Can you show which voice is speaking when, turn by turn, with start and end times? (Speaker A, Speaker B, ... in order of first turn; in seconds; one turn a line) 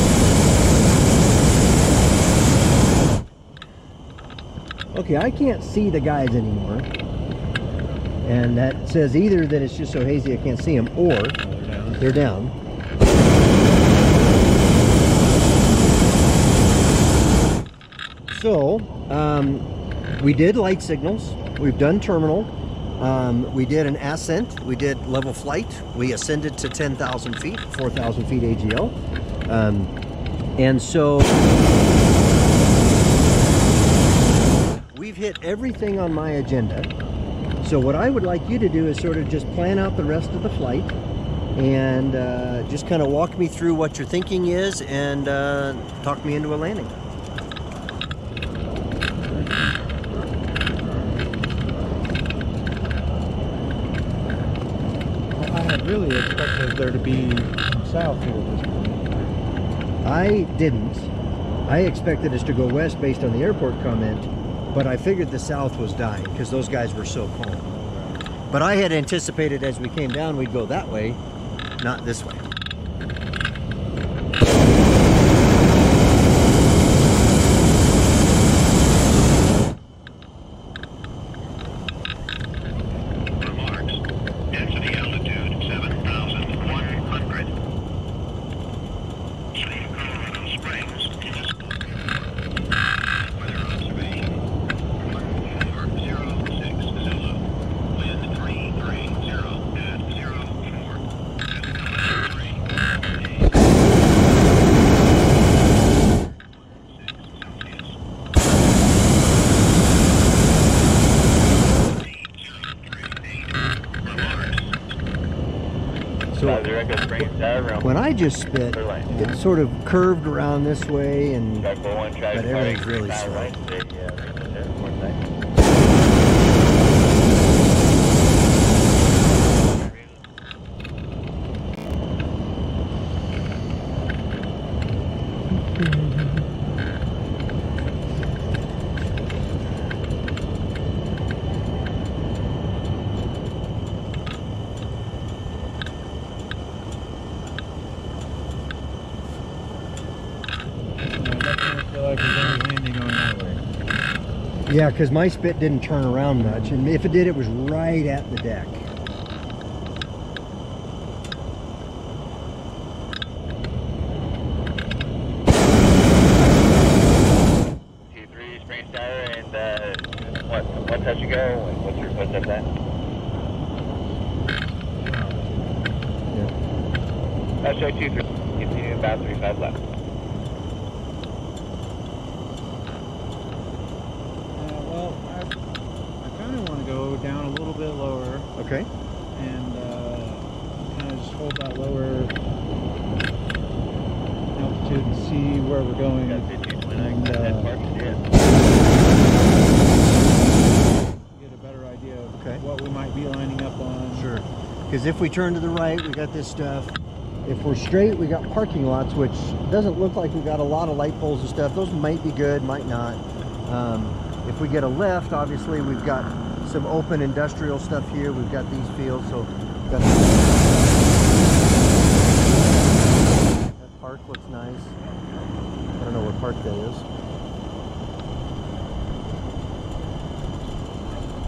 Speaker A: 4.9-6.9
Speaker A: 8.2-11.4
Speaker B: 11.4-12.2
Speaker A: 12.0-12.6
Speaker A: 18.3-28.9
Speaker A: 29.5-29.9
Speaker A: 30.6-31.4
Speaker A: 34.9-36.9
Speaker A: 37.6-41.0
Speaker A: 41.6-47.0
Speaker B: 55.3-59.2
Speaker A: 60.0-61.1
Speaker A: 61.7-67.7
Speaker B: 67.7-68.2
Speaker A: 68.5-71.2
Speaker A: 71.8-72.5
Speaker C: 83.4-87.6
Speaker C: 89.5-103.7
Speaker C: 106.7-107.9
Speaker C: 111.8-114.7
Speaker A: 116.3-116.7
Speaker D: 116.4-117.9
Speaker A: 117.8-121.7
Speaker D: 118.6-119.1
Speaker B: 119.1-119.4
Speaker D: 121.6-125.4
Speaker A: 122.3-123.5
Speaker D: 129.6-130.2
Speaker B: 151.1-153.6
Speaker A: 154.7-158.9
Speaker B: 156.4-156.8
Speaker D: 168.1-172.7
Speaker B: 175.1-175.5
Speaker D: 177.6-179.8
Speaker B: 184.5-185.5
Speaker B: 186.2-188.5
Speaker A: 188.6-188.9
Speaker B: 189.3-192.3
Speaker B: 194.6-197.7
Speaker D: 196.2-198.2
Speaker B: 201.3-204.3
Speaker A: 202.4-202.6
Speaker A: 204.1-221.1
Speaker A: 223.5-224.9
Speaker A: 226.0-227.1